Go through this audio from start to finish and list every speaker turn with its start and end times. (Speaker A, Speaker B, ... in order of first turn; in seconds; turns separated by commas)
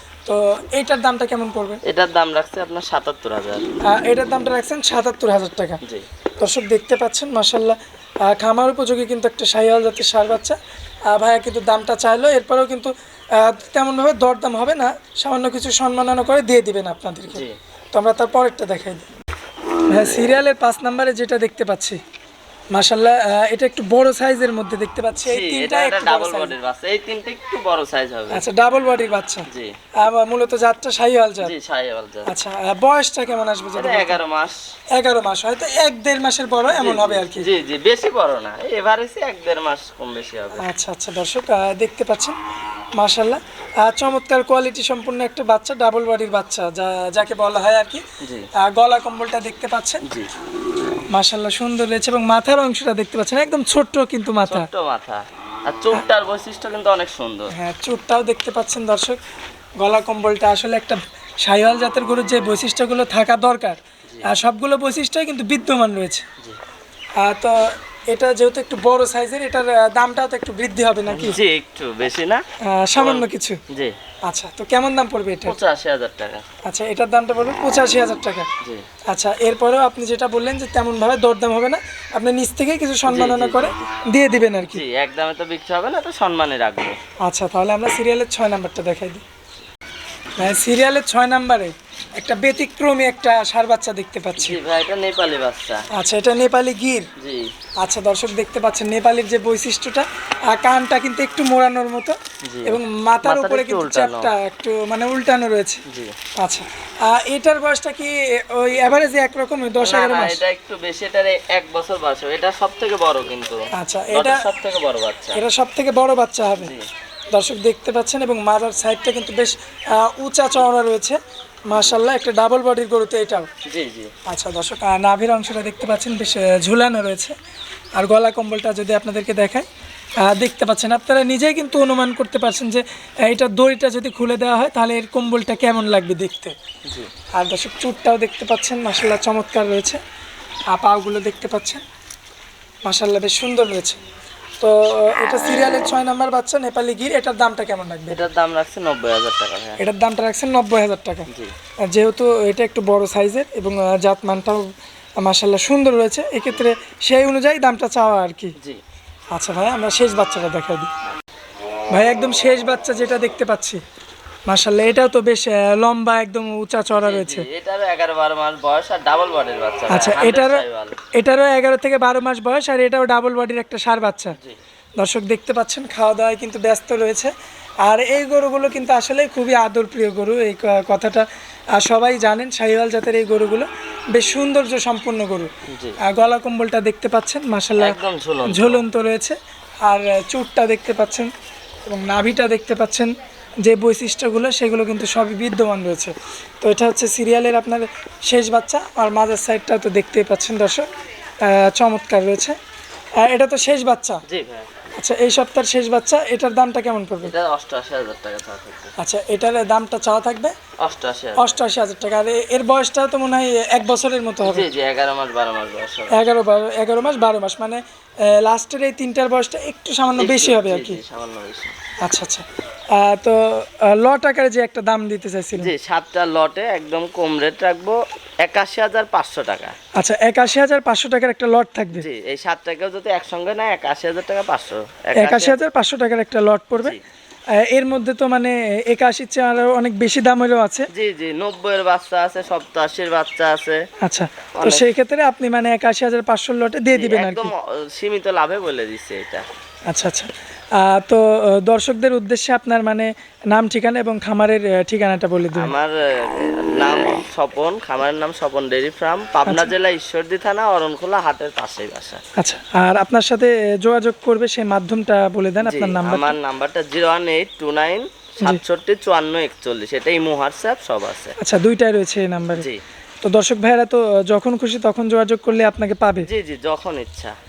Speaker A: 0.3-1.8, Speaker B: 1.9-3.6, Speaker A: 3.9-5.8, Speaker A: 6.4-7.8, Speaker A: 8.3-10.6, Speaker A: 11.1-19.1, Speaker A: 19.9-22.0, Speaker A: 22.7-26.5, Speaker B: 25.2-28.4, Speaker A: 28.3-29.5, Speaker A: 30.0-31.5, Speaker B: 31.4-32.3, Speaker A: 32.3-34.2, Speaker B: 33.8-34.6, Speaker A: 35.0-37.5, Speaker B: 36.7-40.6, Speaker A: 40.6-42.4, Speaker A: 43.0-48.0, Speaker B: 48.2-48.5, Speaker A: 48.6-50.0, Speaker B: 50.0-50.3, Speaker A: 51.1-54.7, Speaker B: 54.5-57.5, Speaker A: 57.5-59.2, Speaker A: 59.8-66.3, Speaker A: 67.2-71.4, Speaker B: 71.1-72.4, Speaker A: 72.7-73.6, Speaker B: 73.0-74.0, Speaker A: 74.3-75.6, Speaker B: 75.4-76.5, Speaker A: 76.7-78.5, Speaker A: 79.1-84.8, Speaker B: 83.1-83.9, Speaker B: 84.7-87.0, Speaker A: 87.2-89.2, Speaker A: 90.4-94.6, Speaker B: 94.4-95.8, Speaker A: 96.0-97.1, Speaker B: 97.2-97.5, Speaker A: 97.8-105.8, Speaker B: 102.5-104.3, Speaker B: 105.9-106.2, Speaker A: 106.4-110.4, Speaker B: 109.8-115.4, Speaker A: 113.7-114.4, Speaker A: 115.3-116.7, Speaker B: 116.5-116.9, Speaker A: 117.3-121.2, Speaker A: 121.7-123.5, Speaker B: 123.7-124.1, Speaker A: 124.3-127.4, Speaker A: 128.0-129.7, Speaker A: 130.2-136.6, Speaker A: 137.4-140.0, Speaker A: 140.7-141.8, Speaker A: 142.8-144.0, Speaker A: 144.6-148.2, Speaker B: 148.1-149.8, Speaker A: 149.8-151.3, Speaker A: 151.9-158.6, Speaker A: 159.3-160.9, Speaker A: 161.9-163.8, Speaker A: 164.5-167.5, Speaker B: 166.9-171.0, Speaker A: 169.9-170.7, Speaker A: 171.2-174.4, Speaker A: 175.0-177.3, Speaker A: 177.8-185.5, Speaker B: 185.7-186.0, Speaker A: 186.0-191.3, Speaker B: 187.8-188.8, Speaker A: 191.9-193.1, Speaker A: 193.7-200.9, Speaker A: 201.4-202.6, Speaker A: 203.2-204.2, Speaker B: 204.3-204.7, Speaker A: 205.0-207.3, Speaker B: 207.2-208.9, Speaker A: 209.0-210.5, Speaker B: 210.8-211.6, Speaker A: 211.4-214.7, Speaker B: 214.4-216.2, Speaker A: 216.1-221.0, Speaker B: 220.2-221.8, Speaker A: 222.0-225.7, Speaker B: 225.6-229.7, Speaker A: 230.0-232.1, Speaker B: 231.9-235.6, Speaker A: 235.2-237.0, Speaker A: 237.6-240.9, Speaker B: 240.9-243.8, Speaker A: 244.0-247.5, Speaker B: 244.6-244.9, Speaker B: 246.9-249.5, Speaker A: 249.9-255.7, Speaker B: 255.5-262.2, Speaker A: 259.5-259.7, Speaker A: 262.4-266.4, Speaker B: 265.6-271.3, Speaker A: 271.4-272.7, Speaker B: 272.5-272.8, Speaker A: 273.2-276.3, Speaker B: 276.2-277.3